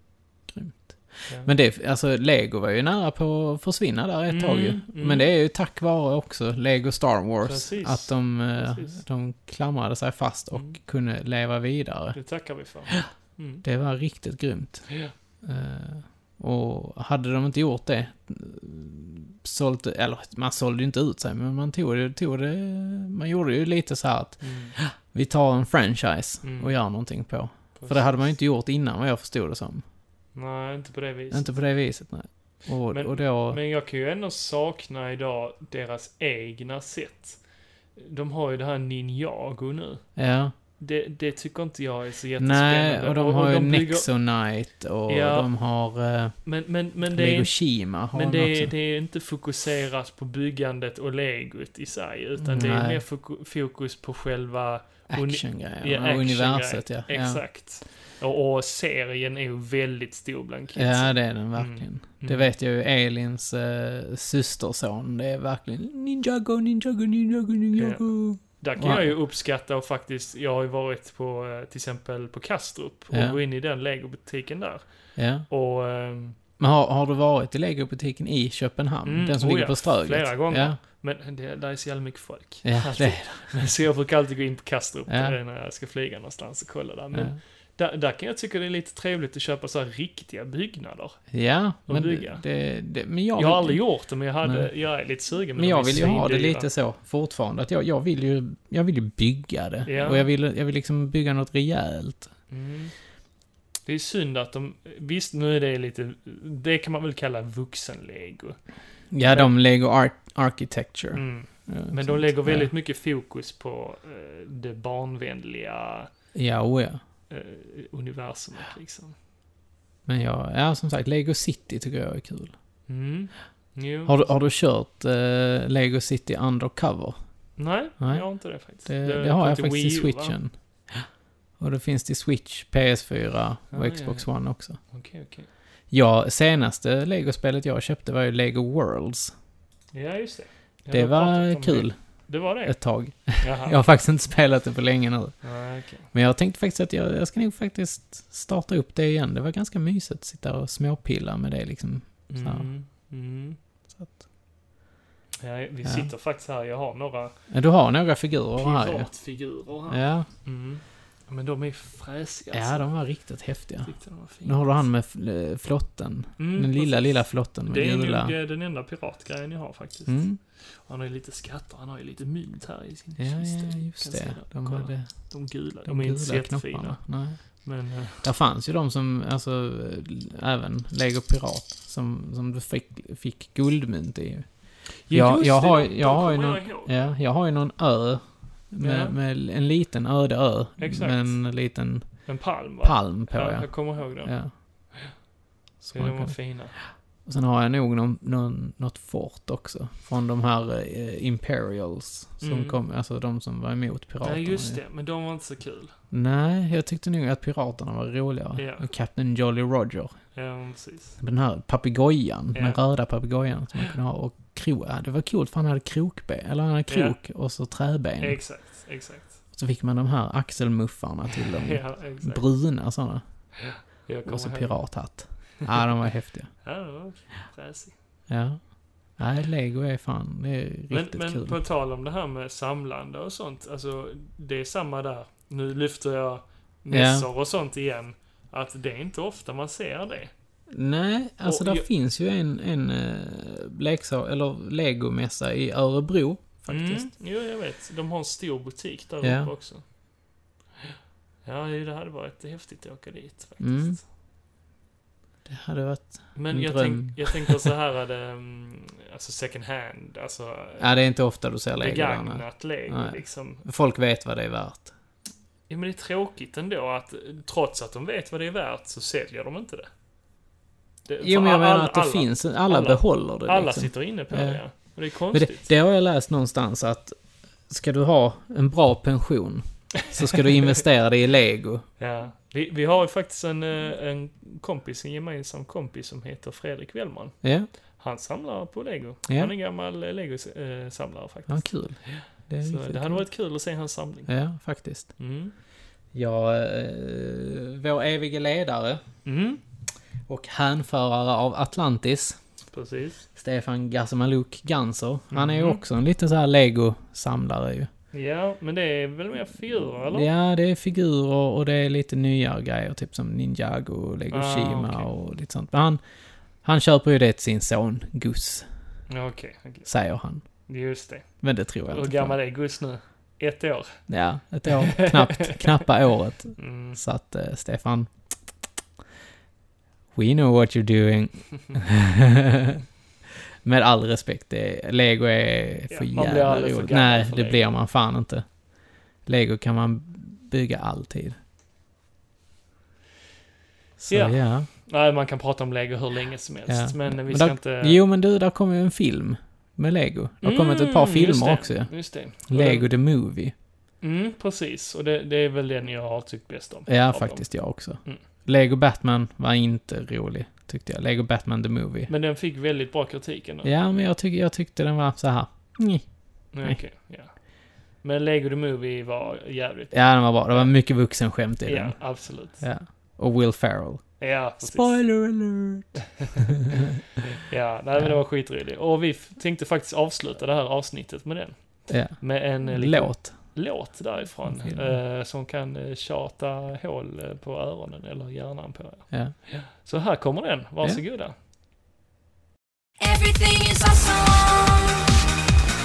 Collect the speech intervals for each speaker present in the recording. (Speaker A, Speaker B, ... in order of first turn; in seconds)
Speaker A: 0.5-12.2, 13.6-14.9, 15.4-29.8, 31.3-33.6, 40.2-40.5, 42.4-46.5, 47.1-48.7, 52.4-53.0, 55.1-57.5, 60.8-69.1, 73.1-73.4, 75.2-75.5, 76.6-80.8, 82.6-83.7, 85.1-85.3, 91.3-94.7, 95.5-102.3, 109.1-112.7, 116.3-117.0, 120.1-122.5, 124.1-127.2, 128.0-130.5, 131.6-134.8, 135.9-139.3, 140.9-142.0, 142.6-145.4, 146.1-152.7, 153.9-154.2, 155.8-156.1, 157.5-159.1, 159.9-160.3, 162.5-168.3, 170.1-170.4, 173.2-175.1, 175.8-177.4, 178.2-184.5, 185.1-192.3, 192.8-194.5, 195.8-196.5, 197.3-204.8, 206.1-210.1, 211.2-218.4, 219.5-223.2, 224.2-226.5, 228.3-231.6, 236.9-237.3, 240.7-247.1, 249.2-249.5, 253.6-254.0, 255.5-257.7, 260.8-264.9, 271.2-274.6, 275.3-277.1, 277.7-281.9, 287.4-287.7, 289.3-289.5, 291.5-293.2, 294.3-295.1, 296.1-299.0, 300.3-302.4, 303.4-307.9, 310.1-316.0, 316.6-318.7, 319.9-320.4, 321.4-322.4, 324.1-328.1, 330.1-332.8, 333.6-338.5, 339.3-341.4, 344.0-344.7, 346.7-353.5, 356.9-362.1, 363.6-366.1, 369.9-376.9, 381.9-383.6, 384.4-385.0
Speaker B: 4.3-5.3, 7.4-9.0, 12.1-13.6, 14.9-15.1, 24.4-24.8, 26.4-26.7, 27.8-28.2, 30.4-31.5, 32.9-40.2, 40.7-44.1, 45.1-45.5, 46.5-62.5, 67.8-76.4, 79.0-91.2, 91.8-92.5, 93.4-96.7, 99.9-100.3, 102.5-102.9, 103.9-108.6, 109.2-109.5, 111.1-116.1, 117.3-119.2, 122.9-124.3, 127.6-130.4, 133.7-135.5, 139.9-142.8, 143.4-143.8, 145.4-146.1, 152.3-153.6, 155.4-157.3, 158.6-162.9, 163.8-164.8, 166.4-177.0, 177.6-178.2, 185.1-187.1, 188.8-189.2, 190.8-191.4, 192.3-194.3, 195.9-196.8, 202.4-202.8, 204.2-205.9, 208.6-208.9, 210.3-211.2, 212.5-212.8, 216.9-217.2, 218.2-219.3, 221.6-222.4, 223.6-225.2, 226.6-227.9, 230.9-240.3, 241.4-241.9, 246.7-249.8, 251.4-254.0, 256.4-260.9, 261.8-263.6, 265.7-269.9, 271.1-275.7, 282.0-294.3, 295.2-295.5, 299.2-299.6, 302.7-303.3, 305.3-305.8, 308.1-310.3, 314.3-315.1, 319.1-319.9, 320.7-321.3, 321.9-324.0, 324.7-325.7, 326.6-327.0, 335.9-337.7, 344.1-348.0, 350.4-352.9, 354.0-357.5, 362.1-363.7, 366.5-370.7, 371.6-372.6, 374.2-375.0, 377.4-391.4
Speaker C: 393.0-395.2